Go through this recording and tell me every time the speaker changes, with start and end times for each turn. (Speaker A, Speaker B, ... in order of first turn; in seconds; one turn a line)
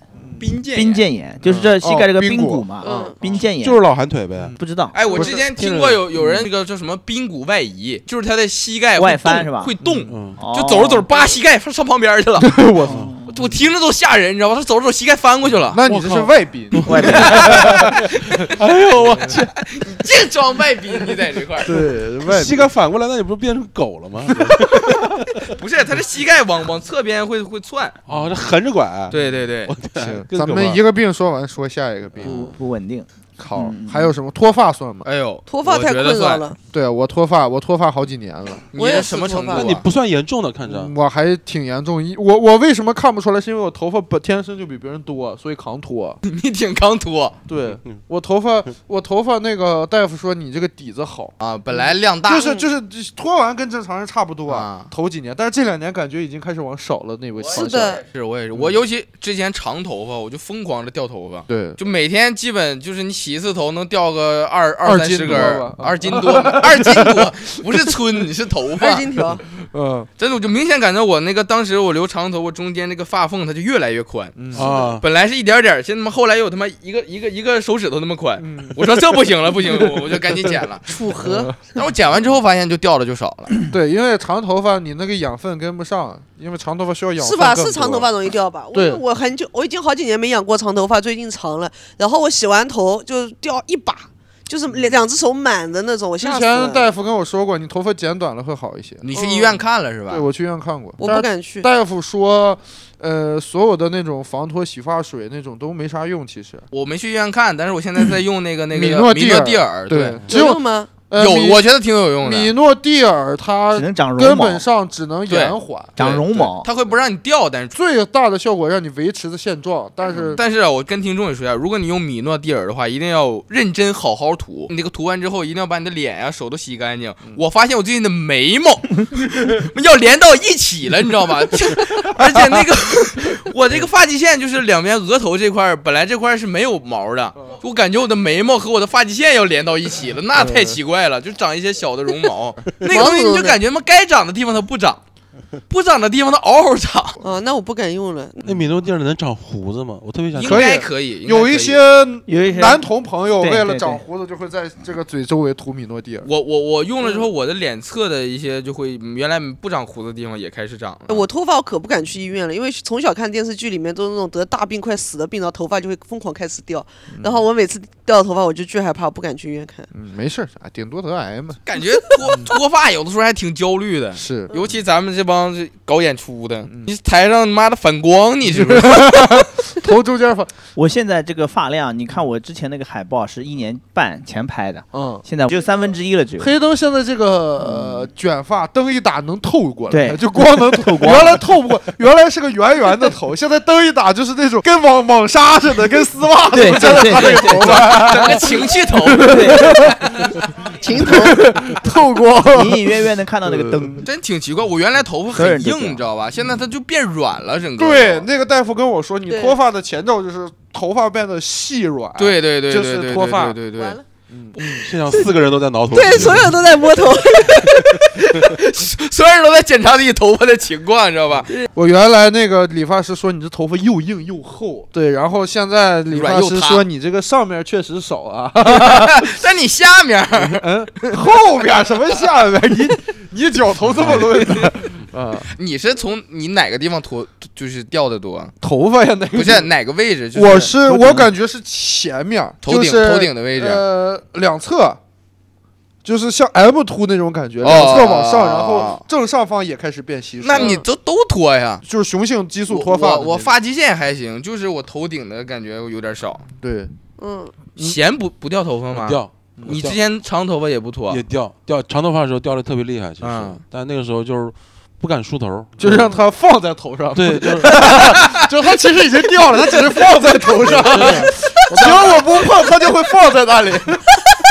Speaker A: 0.4-1.0
Speaker B: 0.7-3.8
Speaker C: 1.4-3.4
Speaker D: 2.8-3.2
Speaker E: 3.6-4.6
Speaker B: 4.6-5.0
Speaker A: 4.9-12.6
Speaker C: 5.1-5.5
Speaker E: 5.5-6.0
Speaker B: 6.2-6.5
Speaker B: 9.0-9.7
Speaker C: 9.8-10.2
Speaker E: 10.1-10.4
Speaker B: 10.4-11.1
Speaker C: 12.4-13.1
Speaker B: 12.8-13.3
Speaker E: 12.9-13.1
Speaker A: 13.3-15.8
Speaker C: 15.7-18.1
Speaker E: 15.9-19.5
Speaker B: 16.8-17.8
Speaker A: 17.1-21.8
Speaker C: 21.6-22.7
Speaker E: 22.2-25.5
Speaker A: 25.5-28.0
Speaker E: 28.1-30.8
Speaker A: 29.1-29.8
Speaker C: 30.0-32.5
Speaker E: 32.2-32.5
Speaker B: 32.2-34.1
Speaker C: 33.4-35.1
Speaker A: 35.0-36.4
Speaker D: 35.5-36.6
Speaker C: 36.7-38.7
Speaker A: 38.7-39.9
Speaker D: 38.8-39.7
Speaker E: 39.5-40.9
Speaker C: 40.6-46.2
Speaker A: 46.2-47.4
Speaker C: 47.5-58.0
Speaker A: 51.4-52.5
Speaker D: 52.4-52.7
Speaker A: 54.5-54.9
Speaker A: 57.4-69.2
Speaker D: 57.5-58.0
Speaker C: 61.5-61.8
Speaker C: 64.8-67.3
Speaker D: 68.8-69.5
Speaker C: 69.6-70.1
Speaker A: 70.2-81.0
Speaker C: 74.4-74.7
Speaker E: 74.5-75.0
Speaker C: 78.4-78.8
Speaker D: 80.9-81.5
Speaker C: 81.2-81.5
Speaker A: 81.7-83.6
Speaker C: 83.6-88.1
Speaker D: 87.2-96.9
Speaker C: 88.7-89.0
Speaker C: 94.7-95.0
Speaker C: 96.2-99.0
Speaker A: 99.0-100.3
Speaker D: 99.1-99.6
Speaker C: 100.1-106.7
Speaker D: 101.0-101.7
Speaker A: 106.7-110.3
Speaker C: 108.7-111.6
Speaker D: 110.3-111.0
Speaker A: 111.2-112.5
Speaker C: 112.2-116.0
Speaker B: 113.7-114.7
Speaker A: 115.3-117.8
Speaker B: 116.0-116.7
Speaker C: 117.7-120.4
Speaker A: 120.1-145.0
Speaker C: 140.4-140.8
Speaker D: 142.8-143.6
Speaker A: 145.7-147.2
Speaker D: 147.2-148.4
Speaker E: 148.4-150.7
Speaker A: 150.3-151.8
Speaker C: 150.4-156.3
Speaker B: 152.3-152.8
Speaker B: 153.4-154.0
Speaker A: 156.2-161.2
Speaker D: 161.1-169.9
Speaker C: 167.1-167.4
Speaker C: 169.9-171.6
Speaker A: 171.7-179.4
Speaker C: 174.2-174.5
Speaker C: 178.5-180.5
Speaker B: 180.8-186.5
Speaker C: 184.9-185.2
Speaker C: 186.4-204.0
Speaker B: 187.6-188.1
Speaker B: 189.9-191.4
Speaker B: 196.5-198.2
Speaker A: 197.6-200.0
Speaker B: 199.2-199.9
Speaker D: 200.7-202.2
Speaker B: 202.5-204.1
Speaker A: 204.0-208.3
Speaker B: 205.3-206.0
Speaker C: 207.8-213.6
Speaker D: 209.3-209.6
Speaker A: 212.2-214.0
Speaker D: 213.8-214.0
Speaker C: 214.3-214.9
Speaker E: 214.8-216.6
Speaker D: 215.9-217.8
Speaker A: 217.5-221.5
Speaker C: 221.7-229.4
Speaker A: 226.1-226.8
Speaker A: 228.6-230.7
Speaker C: 230.3-235.5
Speaker A: 234.1-234.4
Speaker A: 235.5-238.6
Speaker C: 238.6-239.7
Speaker A: 239.3-240.8
Speaker C: 240.3-245.0
Speaker A: 242.6-243.8
Speaker C: 246.0-250.8
Speaker A: 247.6-249.0
Speaker A: 250.4-251.8
Speaker D: 250.5-250.8
Speaker C: 251.8-253.5
Speaker A: 252.7-256.5
Speaker C: 256.6-256.9
Speaker D: 257.2-257.6
Speaker A: 257.8-261.2
Speaker E: 258.9-260.0
Speaker E: 261.1-266.2
Speaker A: 263.2-263.6
Speaker C: 265.8-274.2
Speaker E: 267.1-268.2
Speaker A: 267.8-268.4
Speaker E: 270.6-272.3
Speaker A: 270.9-272.3